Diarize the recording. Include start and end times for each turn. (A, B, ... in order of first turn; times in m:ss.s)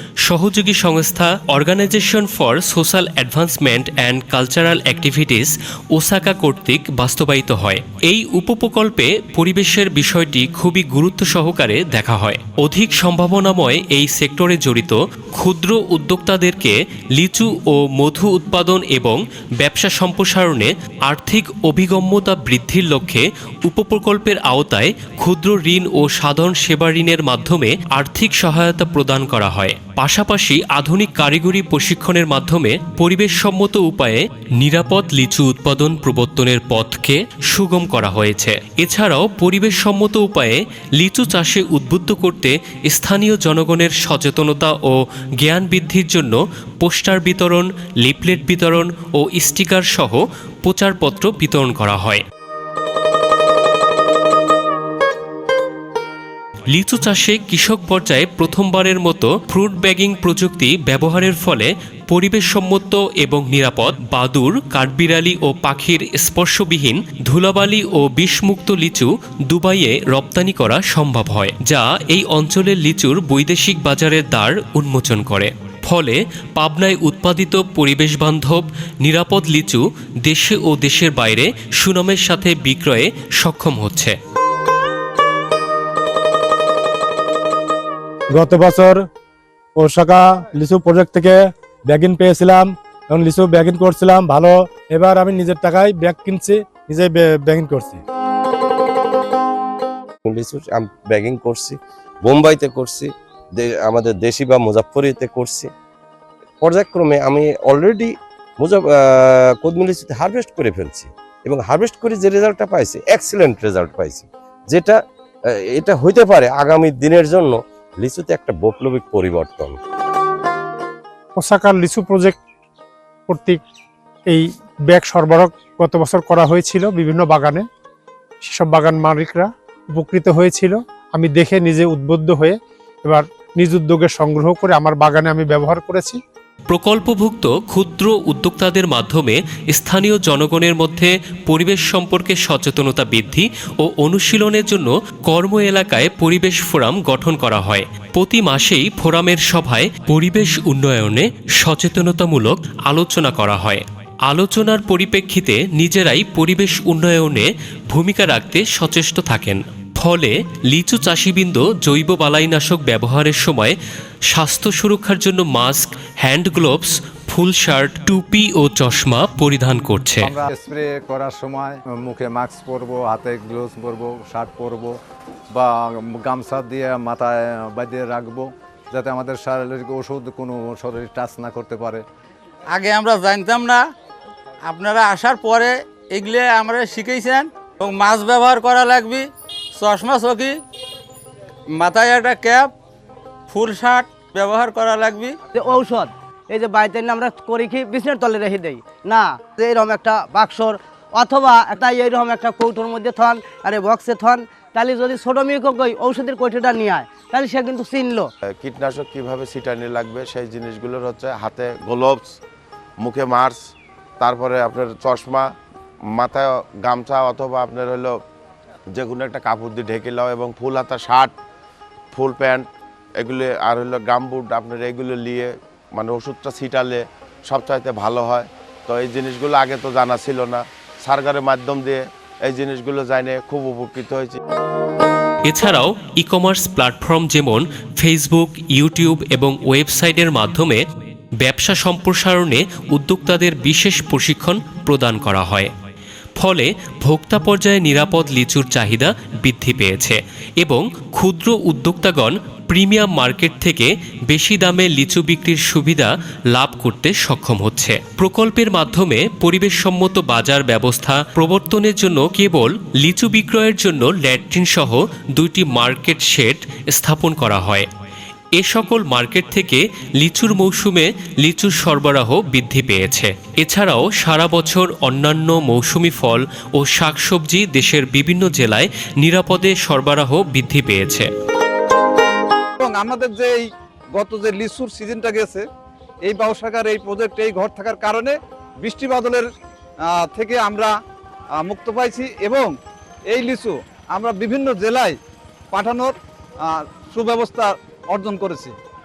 0:00.2-0:52.2 A
0:56.7-1:24.1 A
1:28.4-1:29.0 B
1:29.8-1:38.0 B
1:40.3-1:41.7 C
1:42.3-1:43.0 C
1:43.9-1:45.7 C
1:45.0-1:45.2 D
1:46.7-1:47.9 C
1:49.8-1:54.2 C
1:50.2-1:50.6 D
1:51.8-1:52.5 D
1:53.4-1:54.2 D
1:56.0-1:57.4 C
1:57.1-1:57.4 D
1:58.1-1:59.7 C
1:58.8-1:59.5 D
2:01.4-2:02.4 E
2:03.3-2:03.6 E
2:04.2-2:07.7 E
2:08.4-2:16.2 E
2:16.7-2:43.8 A
2:44.3-2:50.3 A
2:50.2-2:54.9 D
2:55.6-3:02.0 D
3:02.7-3:03.9 F
3:04.6-3:10.6 F
3:11.7-3:12.7 F
3:13.5-3:15.3 F
3:15.5-3:28.3 G
3:28.6-3:32.2 H
3:33.0-3:33.6 H
3:34.2-3:35.4 H
3:36.2-3:38.1 H
3:39.0-3:41.3 H
3:42.1-3:42.6 H
3:43.2-3:52.0 H
3:52.5-3:54.3 H
3:55.5-4:00.8 A
4:01.4-4:05.7 A
4:06.4-4:27.9 A
4:28.6-4:41.3 A
4:42.8-4:43.6 I
4:44.2-4:45.6 I
4:46.3-4:49.4 I
4:50.2-4:50.9 I
4:51.6-4:52.7 I
4:53.3-4:55.1 I
4:55.7-4:56.1 I
4:57.0-4:58.7 I